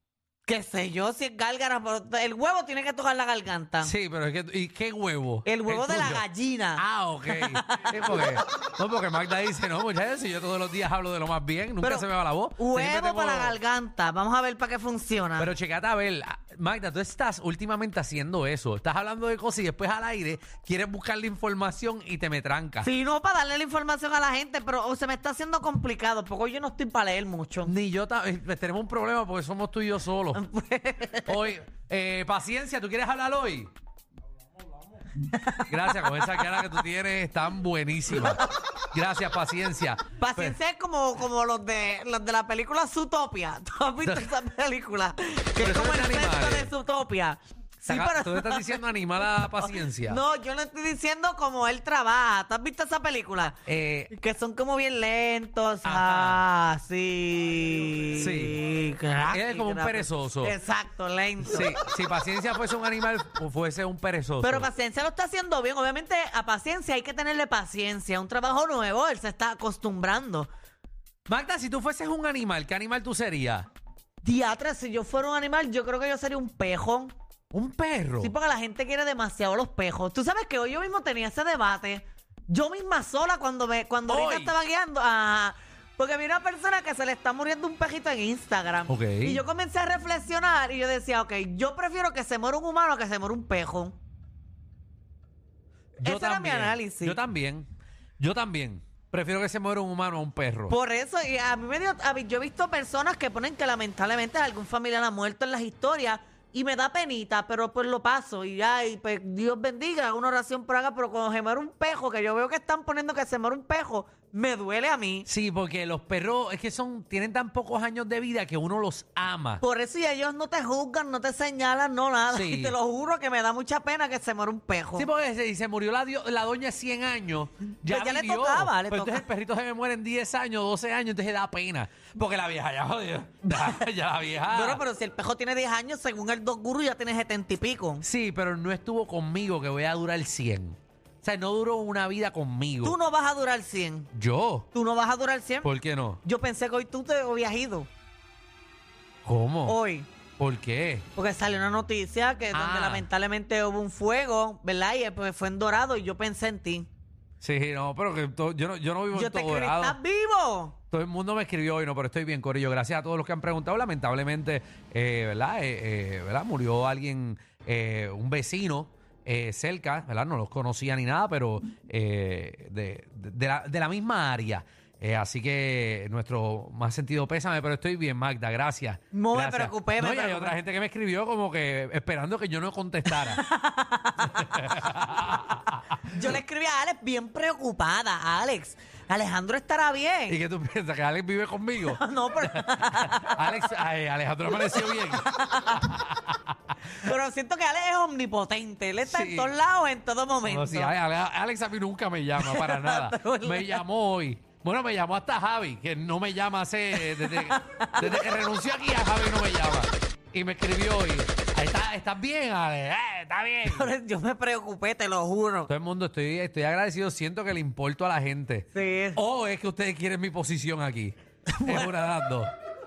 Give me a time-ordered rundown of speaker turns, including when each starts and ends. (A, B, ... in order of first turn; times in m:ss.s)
0:00.4-0:03.9 A
0:03.8-0:06.2 B
0:05.4-0:08.4 A
0:06.8-0:13.6 B
0:11.8-0:15.5 A
0:15.4-0:22.9 B
0:22.8-0:27.7 A
0:27.6-0:30.4 B
0:30.3-0:31.5 A
0:31.2-0:33.7 B
0:35.2-0:36.5 A
0:35.7-0:40.6 B
0:38.1-0:38.4 A
0:40.2-0:48.8 A
0:45.6-0:46.7 B
0:47.9-0:50.2 B
0:49.4-0:53.6 A
0:53.6-0:54.1 B
0:54.1-1:01.7 A
0:55.8-0:56.4 B
0:58.2-0:58.6 B
0:59.3-1:00.5 B
1:01.4-1:04.7 B
1:04.4-1:10.5 A
1:11.3-1:13.7 B
1:14.2-1:17.1 A
1:17.5-1:18.3 B
1:18.2-1:34.0 A
1:24.1-1:24.5 B
1:28.9-1:29.4 B
1:36.0-1:37.2 A
1:36.0-1:40.8 B
1:40.7-1:55.3 A
1:55.2-1:59.6 B
1:59.6-2:05.1 A
2:02.3-2:02.7 B
2:05.0-2:14.8 B
2:07.8-2:09.2 A
2:13.5-2:13.8 A
2:14.5-2:18.0 A
2:18.0-2:23.0 B
2:22.8-2:24.1 A
2:24.1-2:24.7 B
2:24.7-2:25.7 A
2:25.6-2:26.2 B
2:26.2-2:27.9 A
2:29.2-2:29.8 B
2:29.6-2:30.1 A
2:30.4-2:31.0 B
2:31.1-2:36.9 A
2:32.5-2:33.1 B
2:37.4-2:40.0 B
2:39.1-2:40.8 A
2:40.9-3:03.4 B
2:59.1-3:00.5 A
3:03.1-3:04.3 A
3:04.2-3:05.8 B
3:06.1-3:10.4 A
3:10.3-3:16.4 B
3:11.8-3:13.5 A
3:14.5-3:15.8 A
3:17.0-3:20.9 A
3:19.0-3:19.5 B
3:20.4-3:33.9 B
3:22.4-3:23.8 A
3:26.9-3:28.2 A
3:33.7-3:35.7 A
3:35.7-3:42.5 B
3:38.7-3:39.2 A
3:41.5-3:41.9 A